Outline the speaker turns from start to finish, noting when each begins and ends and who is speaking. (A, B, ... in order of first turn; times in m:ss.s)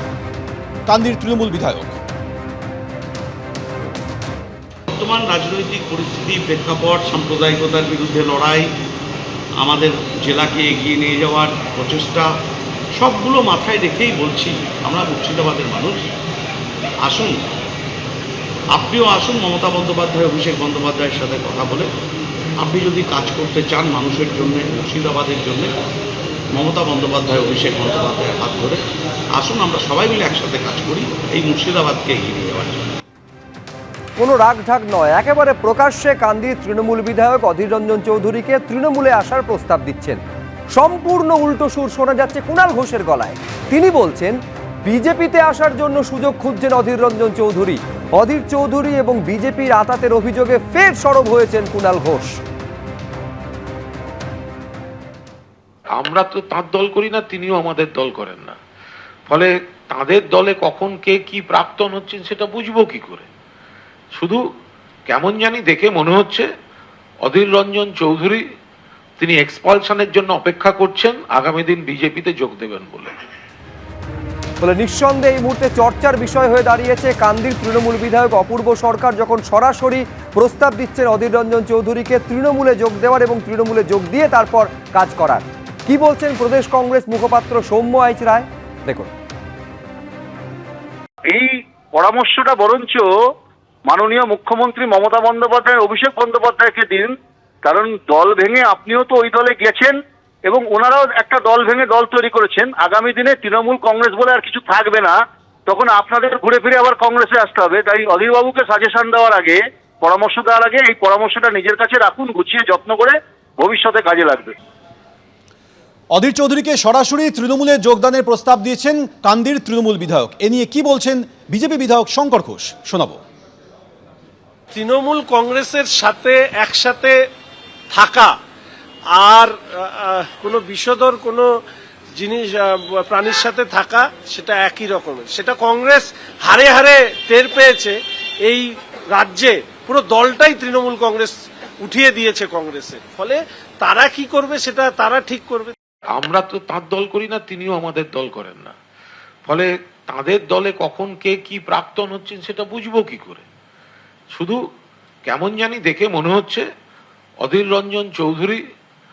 0:00.9-0:02.0 A
0:04.9-0:08.7 B
0:09.6-0:12.3 B
0:12.9-0:16.0 B
0:17.0-0:17.4 B
0:18.7-0:21.9 B
0:22.6-0:25.7 B
0:26.5-0:28.8 B
0:29.4-0:32.9 B
0:34.2-0:40.2 C
0:40.7-0:52.4 C
0:55.9-0:58.6 D
0:59.3-1:03.3 D
1:04.1-1:04.4 D
1:05.1-1:06.5 D
1:07.2-1:08.4 D
1:09.2-1:13.1 D
1:14.6-1:29.1 C
1:31.3-1:33.1 E
1:33.8-1:54.5 E
1:56.1-2:03.2 A
2:04.7-2:07.2 F
2:07.9-2:08.4 F
2:09.1-2:11.5 F
2:12.2-2:25.7 F
2:26.1-2:28.7 D
2:29.4-2:33.4 D
2:35.2-2:36.6 D
2:37.4-2:38.6 D